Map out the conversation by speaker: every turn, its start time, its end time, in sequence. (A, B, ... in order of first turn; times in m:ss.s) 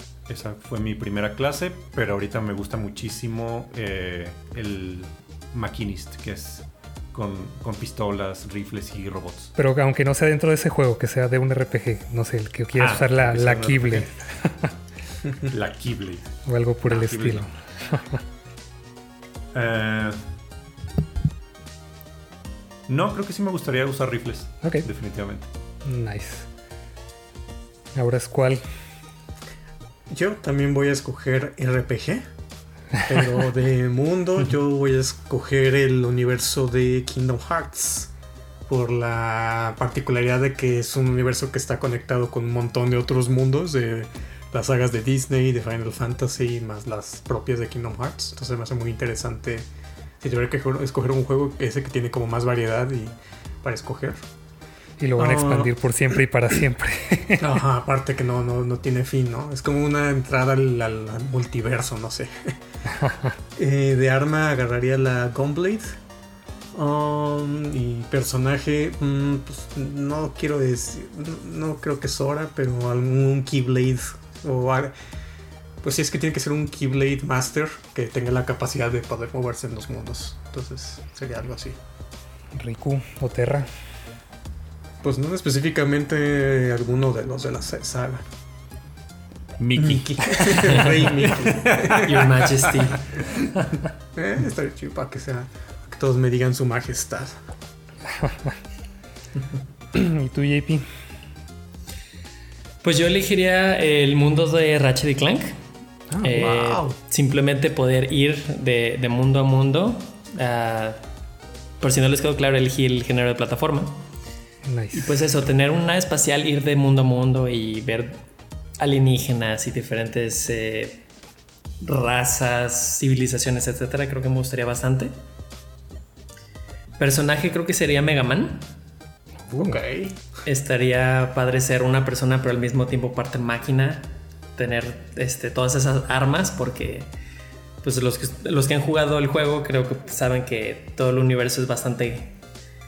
0:00.3-0:09.5 A
0:09.6-0:14.7 B
0:12.8-0:14.1 A
0:15.5-0:16.3 A
0:16.4-0:18.2 B
0:16.9-0:17.4 A
0:19.5-0:20.2 A
0:22.9-0:25.5 A
0:25.8-0:26.5 B
0:28.0-0:28.6 B
0:30.1-0:32.3 C
0:33.1-0:38.1 C
0:38.7-0:49.7 C
0:50.2-0:54.2 C
0:55.0-0:57.5 B
0:55.2-0:55.7 C
0:57.4-1:02.6 C
1:03.0-1:03.3 B
1:03.6-1:06.0 C
1:06.7-1:14.9 C
1:15.8-1:21.8 C
1:22.6-1:23.7 B
1:25.0-1:28.2 C
1:29.6-1:32.8 A
1:29.8-1:32.3 C
1:30.6-1:30.9 D
1:31.9-1:33.1 D
1:34.2-1:37.4 C
1:38.2-1:38.5 B
1:39.9-1:40.9 B
1:42.8-1:45.6 D
1:46.1-1:46.5 B
1:46.2-1:51.0 D
1:46.4-1:47.0 C
1:51.8-1:54.0 D
1:54.7-1:55.1 B
1:54.9-1:58.2 D
1:58.8-2:01.0 D
2:01.8-2:05.1 D
2:07.0-2:08.7 D
2:09.4-2:09.8 B
2:09.5-2:10.3 C
2:10.4-2:17.1 D
2:17.8-2:22.4 D